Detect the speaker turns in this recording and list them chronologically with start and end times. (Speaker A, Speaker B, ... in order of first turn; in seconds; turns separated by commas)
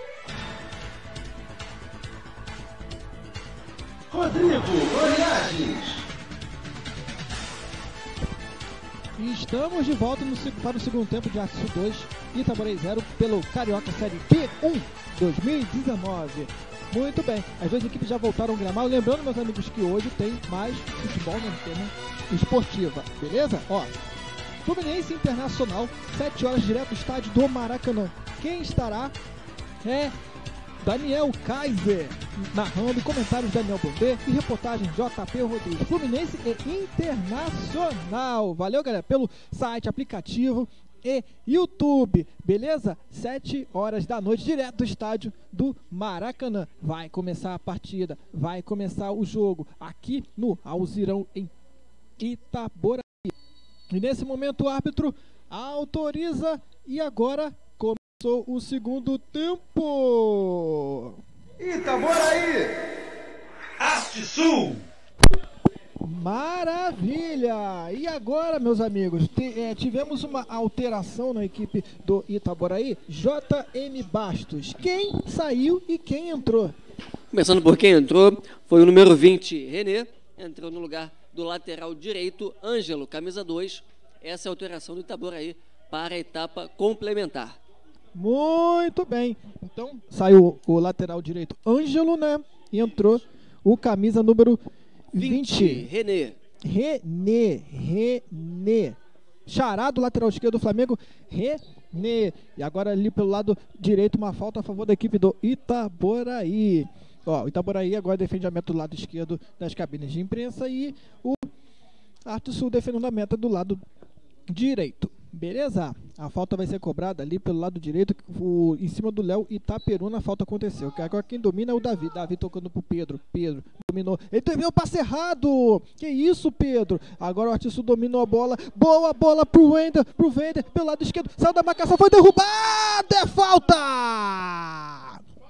Speaker A: 4.1-6.0, Speaker B: 9.2-23.9, Speaker B: 24.6-29.1, Speaker B: 29.8-30.1, Speaker B: 30.8-51.5, Speaker B: 52.2-53.3, Speaker B: 53.9-61.2, Speaker A: 61.6-62.8, Speaker A: 63.8-64.8, Speaker B: 66.0-76.7, Speaker C: 77.3-87.6, Speaker B: 88.1-94.6, Speaker B: 95.1-95.9, Speaker C: 95.1-96.4, Speaker B: 96.6-99.0, Speaker B: 99.5-111.5, Speaker B: 112.2-113.8, Speaker B: 114.5-135.2